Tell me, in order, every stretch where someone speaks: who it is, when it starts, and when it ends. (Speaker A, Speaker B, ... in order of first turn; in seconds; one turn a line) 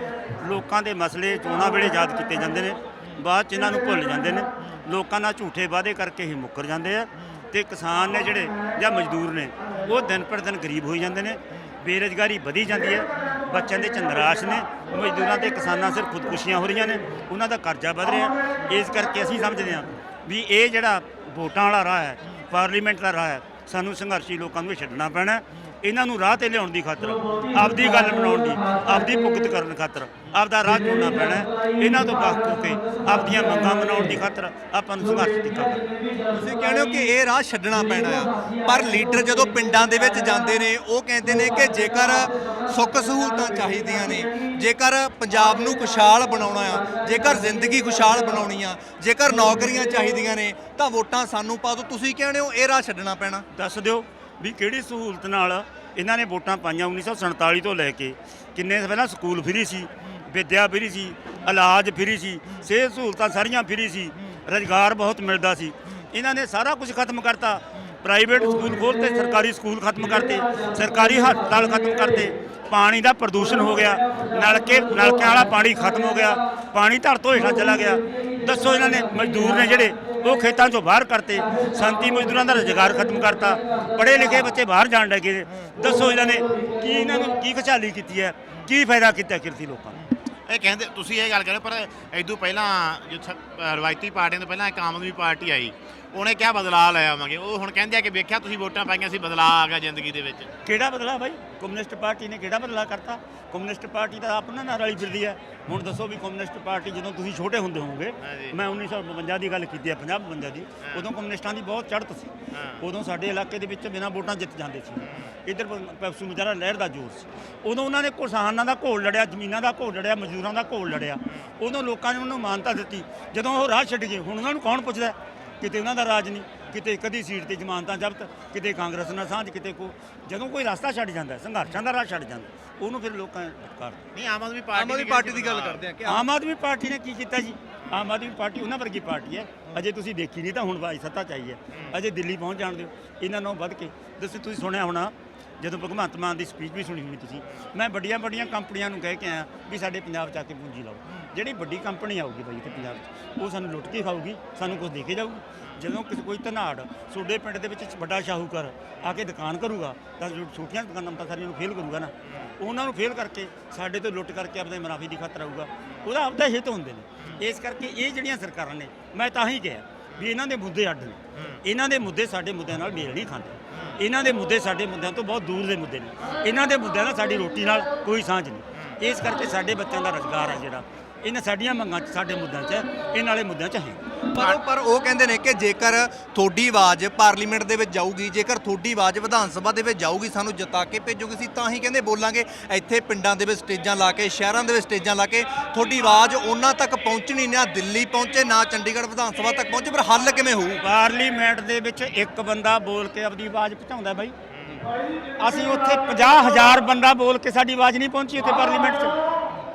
Speaker A: 0.4-35.9
Speaker B: 36.3-53.5
Speaker A: 53.5-90.1
Speaker C: 90.5-100.5
Speaker A: 100.7-134.0
Speaker C: 108.2-108.6
Speaker C: 110.8-111.1
Speaker C: 112.5-112.8
Speaker C: 115.0-115.3
Speaker C: 134.1-135.8
Speaker B: 134.7-136.3
Speaker A: 136.1-184.0
Speaker C: 162.2-162.6
Speaker C: 171.3-171.6
Speaker C: 173.7-174.0
Speaker C: 176.2-176.4
Speaker B: 184.3-200.8
Speaker A: 200.8-204.3
Speaker C: 204.5-204.9
Speaker A: 205.4-209.2